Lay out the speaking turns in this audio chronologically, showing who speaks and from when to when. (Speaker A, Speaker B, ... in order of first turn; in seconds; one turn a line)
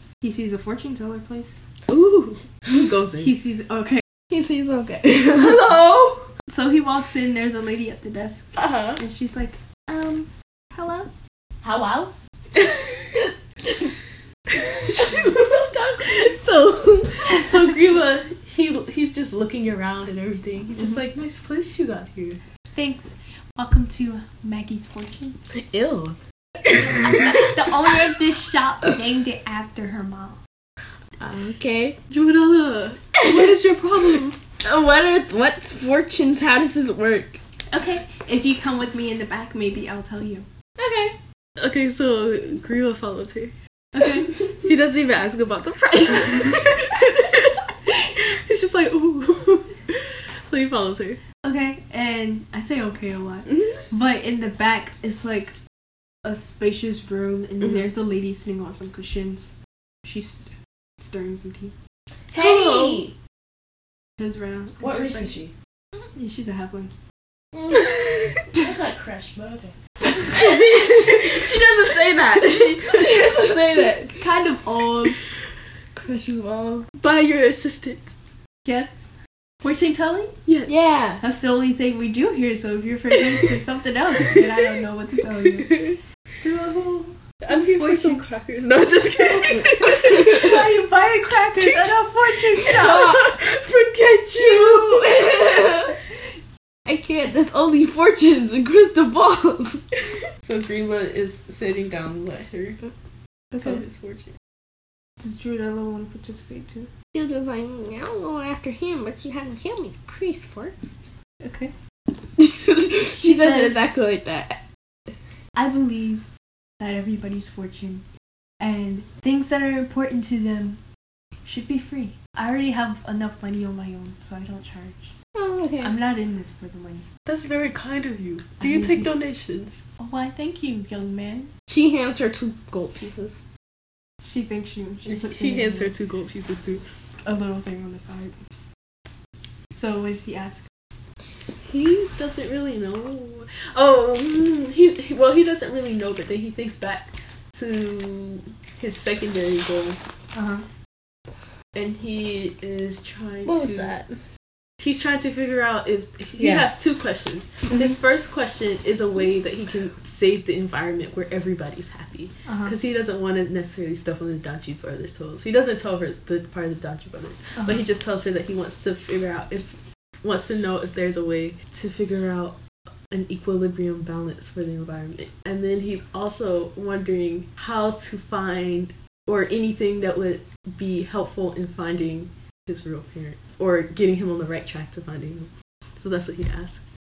Speaker A: 0.2-1.6
Speaker B: 1.9-3.4
Speaker A: 3.2-4.0
Speaker C: 4.3-5.7
Speaker B: 5.3-6.3
Speaker A: 6.5-11.1
Speaker B: 8.6-9.0
Speaker C: 11.6-12.1
Speaker B: 14.6-16.0
Speaker C: 15.0-17.2
Speaker B: 17.2-22.4
Speaker A: 22.8-25.4
Speaker C: 25.5-26.2
Speaker C: 26.7-27.3
Speaker A: 27.0-30.4
Speaker C: 31.2-32.0
Speaker B: 32.1-34.4
Speaker C: 34.6-37.4
Speaker A: 37.7-40.5
Speaker C: 40.8-41.2
Speaker B: 41.6-43.5
Speaker A: 43.9-44.3
Speaker B: 44.3-51.2
Speaker A: 51.4-55.5
Speaker A: 56.2-59.5
Speaker B: 57.6-57.9
Speaker A: 60.0-61.8
Speaker B: 62.3-63.0
Speaker C: 62.3-63.1
Speaker A: 64.2-65.4
Speaker C: 64.8-65.5
Speaker A: 66.2-66.9
Speaker C: 67.5-68.0
Speaker C: 68.5-74.2
Speaker B: 70.3-74.0
Speaker A: 74.2-75.2
Speaker C: 76.0-76.9
Speaker B: 77.0-78.2
Speaker A: 78.7-79.1
Speaker A: 79.6-80.4
Speaker C: 80.7-81.2
Speaker A: 81.2-88.3
Speaker B: 85.6-86.0
Speaker B: 87.4-90.7
Speaker A: 89.5-93.3
Speaker B: 91.6-91.9
Speaker B: 92.5-95.3
Speaker C: 92.9-93.3
Speaker C: 94.4-96.0
Speaker C: 96.9-99.9
Speaker B: 100.4-102.8
Speaker A: 103.5-103.8
Speaker B: 103.6-104.3
Speaker A: 105.2-106.9
Speaker C: 107.1-111.0
Speaker A: 111.4-111.7
Speaker C: 112.4-114.6
Speaker A: 113.2-113.9
Speaker A: 115.5-116.2
Speaker A: 116.8-118.0
Speaker A: 118.6-120.8
Speaker A: 121.5-125.1
Speaker C: 125.3-126.0
Speaker A: 125.8-127.1
Speaker B: 127.2-129.8
Speaker A: 128.6-129.1
Speaker A: 130.0-131.5
Speaker C: 131.7-133.4
Speaker A: 134.2-135.9
Speaker B: 135.1-136.8
Speaker A: 137.2-138.3
Speaker A: 139.7-140.6
Speaker B: 141.6-150.0
Speaker A: 150.3-150.7
Speaker B: 151.7-154.1
Speaker C: 153.4-154.1
Speaker B: 154.8-172.6
Speaker C: 156.4-156.7
Speaker A: 162.5-162.8
Speaker B: 173.1-186.8